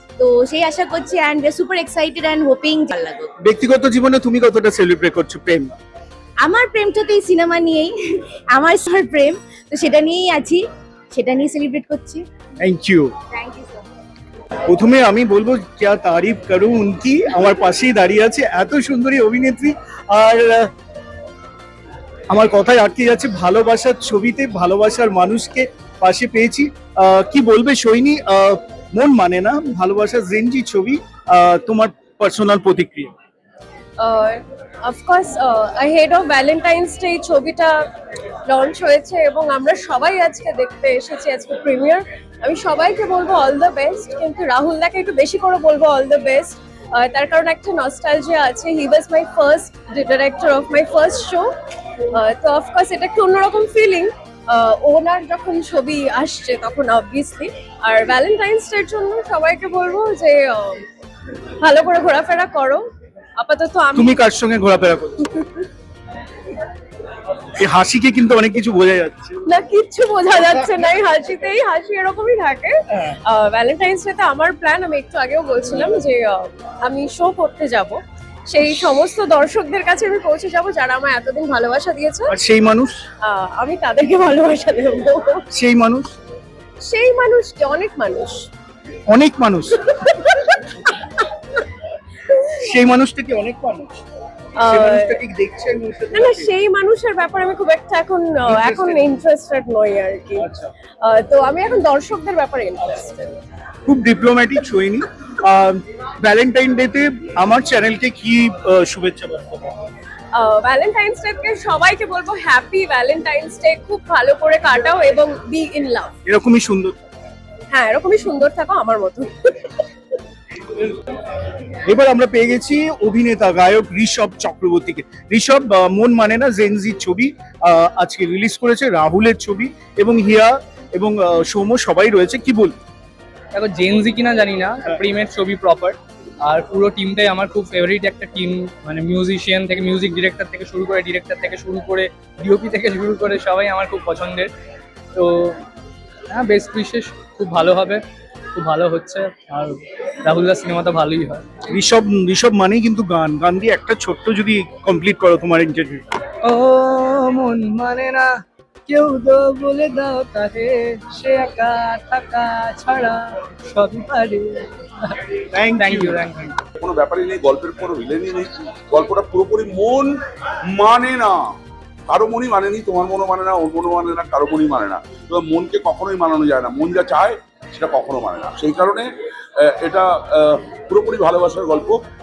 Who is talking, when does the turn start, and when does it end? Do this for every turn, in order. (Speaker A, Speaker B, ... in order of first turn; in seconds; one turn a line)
Speaker A: 0.2-3.3
Speaker B: 3.4-5.8
Speaker A: 6.4-8.0
Speaker A: 8.5-12.2
Speaker B: 12.6-13.1
Speaker B: 14.7-20.7
Speaker B: 22.3-33.1
Speaker C: 34.0-37.8
Speaker C: 38.5-51.5
Speaker C: 52.1-60.9
Speaker C: 61.6-62.9
Speaker C: 63.4-64.2
Speaker B: 64.0-65.5
Speaker B: 67.6-69.4
Speaker C: 69.5-82.3
Speaker B: 82.3-83.0
Speaker C: 83.2-85.5
Speaker B: 85.5-86.2
Speaker C: 86.8-88.5
Speaker B: 89.1-89.8
Speaker B: 92.5-94.0
Speaker C: 94.6-95.2
Speaker B: 94.6-96.5
Speaker C: 96.1-100.5
Speaker B: 98.5-99.2
Speaker B: 100.4-100.7
Speaker C: 101.0-103.4
Speaker B: 103.9-109.7
Speaker C: 110.3-116.1
Speaker B: 116.3-117.0
Speaker C: 117.7-119.5
Speaker B: 121.9-132.8
Speaker D: 133.5-144.5
Speaker D: 145.2-145.6
Speaker D: 146.3-148.0
Speaker D: 148.6-151.4
Speaker B: 151.7-156.1
Speaker D: 156.4-158.3
Speaker D: 158.9-165.1
Speaker B: 165.5-166.2
Speaker D: 165.8-166.6
Speaker E: 166.8-171.5
Speaker E: 172.1-182.0